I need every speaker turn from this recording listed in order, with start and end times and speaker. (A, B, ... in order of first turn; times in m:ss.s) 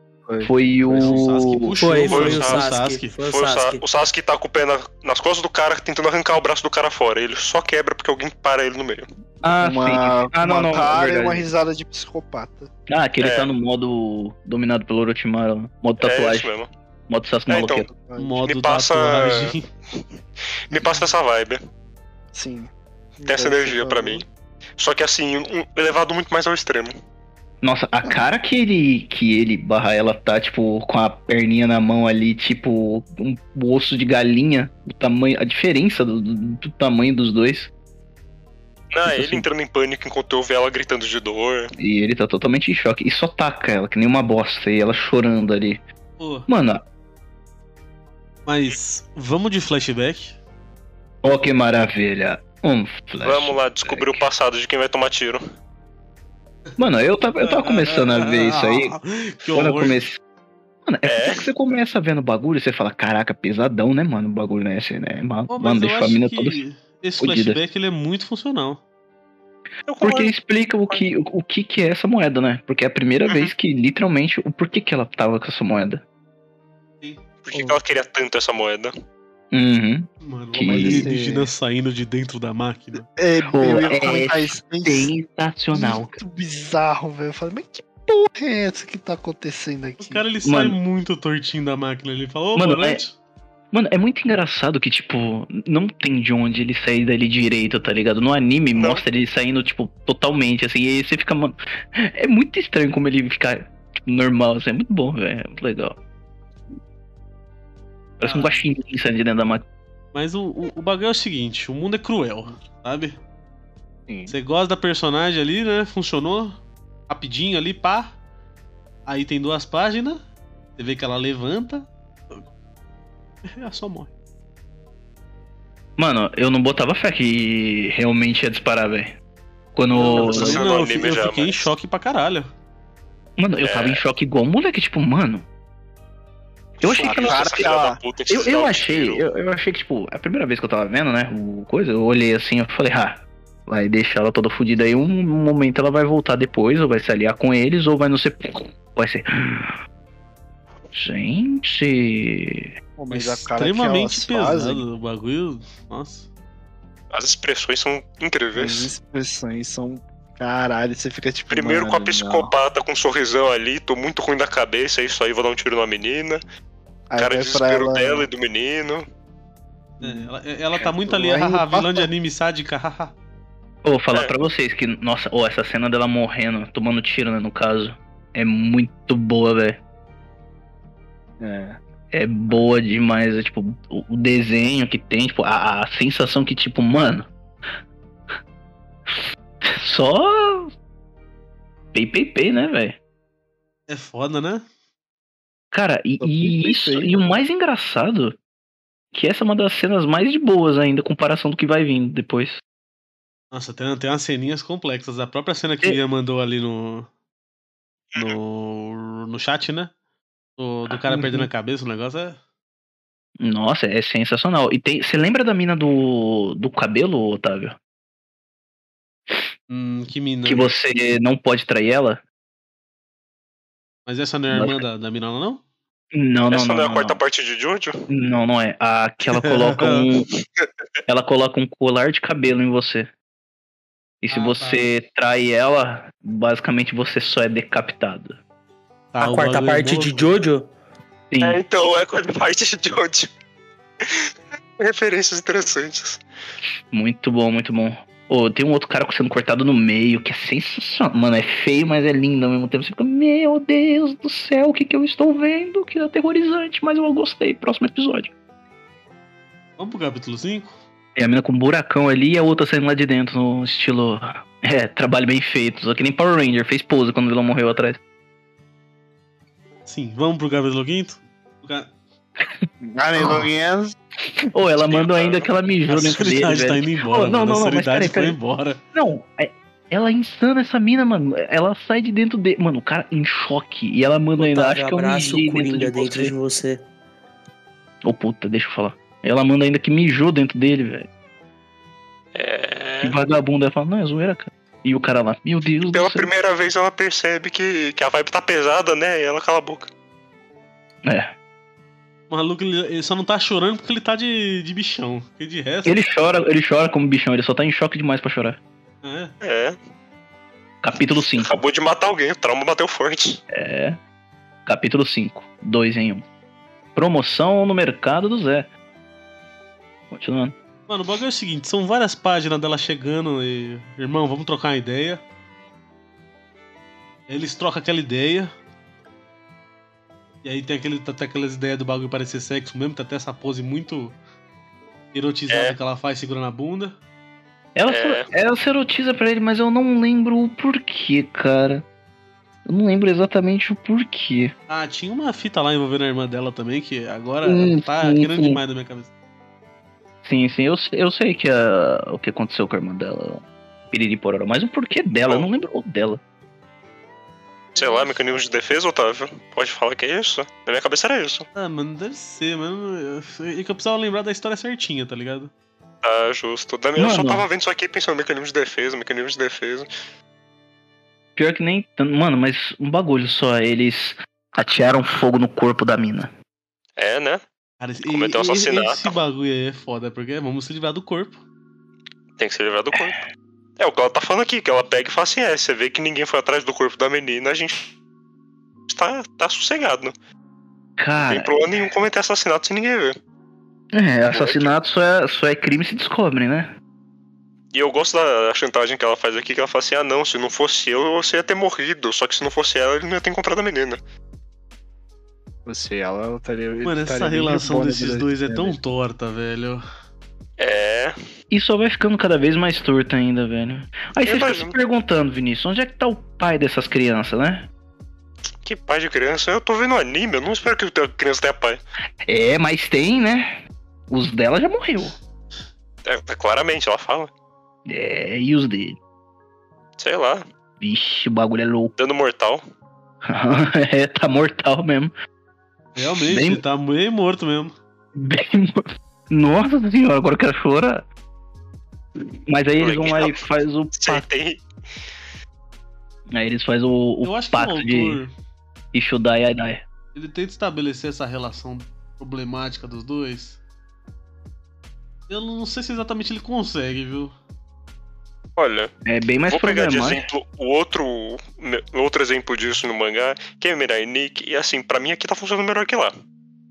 0:00.3-0:01.2 A
0:00.4-0:01.8 B
0:00.9-0:03.2 C
0:01.8-0:03.8 D
0:02.0-0:02.7 E
0:03.3-0:09.1 E
0:09.4-0:11.4 B
0:09.6-0:12.7 A
0:12.9-0:16.5 B
0:13.2-0:13.5 E
0:16.0-0:16.7 E
0:17.1-0:17.9 B
0:17.5-0:17.9 E
0:17.9-0:18.4 A
0:18.2-0:19.7 C
0:18.4-0:19.5 E
0:20.7-0:21.6 E
0:22.3-0:24.2 A
0:23.2-0:24.2 E
0:24.8-0:26.9 E
0:27.6-0:37.7 B
0:38.9-0:41.7 E
0:39.1-0:39.4 B
0:41.8-0:45.8 B
0:46.2-0:46.5 C
0:46.5-0:46.8 B
0:48.4-0:50.4 C
0:51.2-0:54.2 B
0:53.2-0:55.4 E
0:56.8-0:59.0 B
0:57.4-1:00.0 C
0:59.5-1:00.2 B
1:00.8-1:06.6 B
1:01.0-1:01.4 E
1:05.5-1:08.8 C
1:07.2-1:07.6 B
1:09.9-1:10.3 E
1:10.0-1:16.0 B
1:13.3-1:13.5 E
1:17.4-1:18.9 E
1:17.5-1:17.8 A
1:19.5-1:21.1 B
1:20.2-1:23.0 C
1:20.6-1:21.5 A
1:23.1-1:25.1 A
1:23.5-1:26.2 B
1:25.7-1:30.2 A
1:30.0-1:33.1 C
1:30.4-1:30.8 B
1:32.5-1:33.0 B
1:33.7-1:46.0 B
1:38.7-1:39.0 E
1:48.2-1:49.6 B
1:48.2-1:48.7 C
1:50.1-1:53.2 C
1:54.1-1:54.3 A
1:54.3-1:58.2 C
1:59.1-2:00.2 C
2:00.8-2:02.4 C
2:03.5-2:04.1 C
2:06.0-2:09.2 B
2:09.7-2:10.7 B
2:09.9-2:12.5 C
2:10.2-2:11.7 E
2:13.4-2:15.4 B
2:13.6-2:14.0 E
2:16.8-2:19.2 E
2:16.8-2:17.7 B
2:17.0-2:18.0 A
2:18.3-2:29.7 B
2:30.9-2:32.7 B
2:33.0-2:34.8 A
2:33.1-2:36.2 C
2:37.1-2:38.9 E
2:38.5-2:42.5 A
2:41.5-2:46.4 E
2:47.1-2:48.3 A
2:47.2-2:49.0 E
2:50.0-2:53.1 C
2:50.0-2:52.1 A
2:53.8-2:59.8 B
3:01.4-3:01.8 A
3:02.1-3:07.3 B
3:09.1-3:10.7 B
3:11.9-3:13.0 B
3:13.9-3:14.6 C
3:15.7-3:18.4 B
3:16.2-3:17.2 A
3:19.1-3:22.6 B
3:23.5-3:27.1 C
3:28.2-3:29.9 C
3:30.6-3:32.4 C
3:31.0-3:31.5 B
3:33.4-3:37.8 B
3:39.7-3:40.7 C
3:40.4-3:42.2 B
3:44.0-3:45.6 C
3:44.5-3:44.8 B
3:46.1-3:47.2 B
3:46.5-3:48.0 E
3:48.1-3:50.2 B
3:49.3-3:50.1 C
3:51.1-3:53.1 B
3:54.2-3:58.4 B
3:54.3-3:54.9 C
3:59.1-4:00.4 C
3:59.2-4:00.7 D
4:01.3-4:01.6 B
4:01.4-4:03.3 E
4:04.0-4:06.2 E
4:06.9-4:18.3 B
4:19.8-4:20.8 C
4:21.2-4:28.0 B
4:29.8-4:31.9 C
4:32.8-4:33.9 A
4:33.2-4:33.5 B
4:34.4-4:38.4 B
4:34.8-4:35.5 E
4:35.9-4:38.8 C
4:38.9-4:46.3 B
4:44.4-4:46.8 D
4:48.0-4:51.1 B
4:52.3-4:53.1 E
4:53.0-4:56.3 B
4:55.8-4:59.9 E
5:01.0-5:01.3 B
5:02.3-5:06.0 C
5:05.8-5:08.6 B
5:09.0-5:09.3 C
5:09.4-5:09.8 E
5:10.8-5:11.6 B
5:11.3-5:13.4 E
5:13.5-5:14.0 B
5:14.6-5:16.2 B
5:16.9-5:18.7 B
5:20.1-5:20.5 B
5:20.9-5:25.2 C
5:27.3-5:28.5 C
5:30.4-5:34.2 C
5:35.1-5:37.0 C
5:35.5-5:35.8 E
5:37.7-5:41.8 B
5:37.9-5:38.2 E
5:42.6-5:44.5 B
5:44.7-5:49.1 C
5:47.4-5:48.6 B
5:50.2-5:56.2 B
5:55.2-5:55.5 E
5:57.7-5:58.2 C
5:57.8-6:01.5 E
6:01.6-6:05.5 C
6:06.0-6:09.9 E
6:07.0-6:07.4 B
6:11.4-6:16.3 B
6:17.0-6:17.4 E
6:17.8-6:21.4 C
6:18.0-6:19.2 E
6:22.4-6:23.2 E
6:23.8-6:27.9 E
6:28.9-6:30.1 E
6:31.0-6:31.6 B
6:31.2-6:33.2 E
6:33.9-6:36.7 B
6:34.3-6:34.7 E
6:37.7-6:44.0 E
6:45.6-6:48.8 A
6:46.8-6:49.8 C
6:50.6-6:51.1 E
6:51.5-6:57.7 B
6:54.2-6:54.8 E
6:58.6-7:01.8 E
7:02.2-7:03.6 B
7:04.1-7:05.1 B
7:06.0-7:07.3 E
7:07.8-7:09.0 B
7:10.0-7:10.4 E
7:10.8-7:11.9 B
7:12.0-7:12.6 E
7:13.2-7:15.1 B
7:16.0-7:17.7 C
7:16.2-7:16.6 B
7:18.1-7:21.0 B
7:22.5-7:24.2 B
7:22.8-7:23.4 E
7:24.0-7:24.6 E
7:26.3-7:28.2 B
7:27.2-7:28.3 C
7:28.9-7:29.8 B
7:30.1-7:33.6 C
7:35.3-7:37.3 C
7:38.6-7:38.9 E
7:39.0-7:40.2 B
7:39.5-7:46.1 E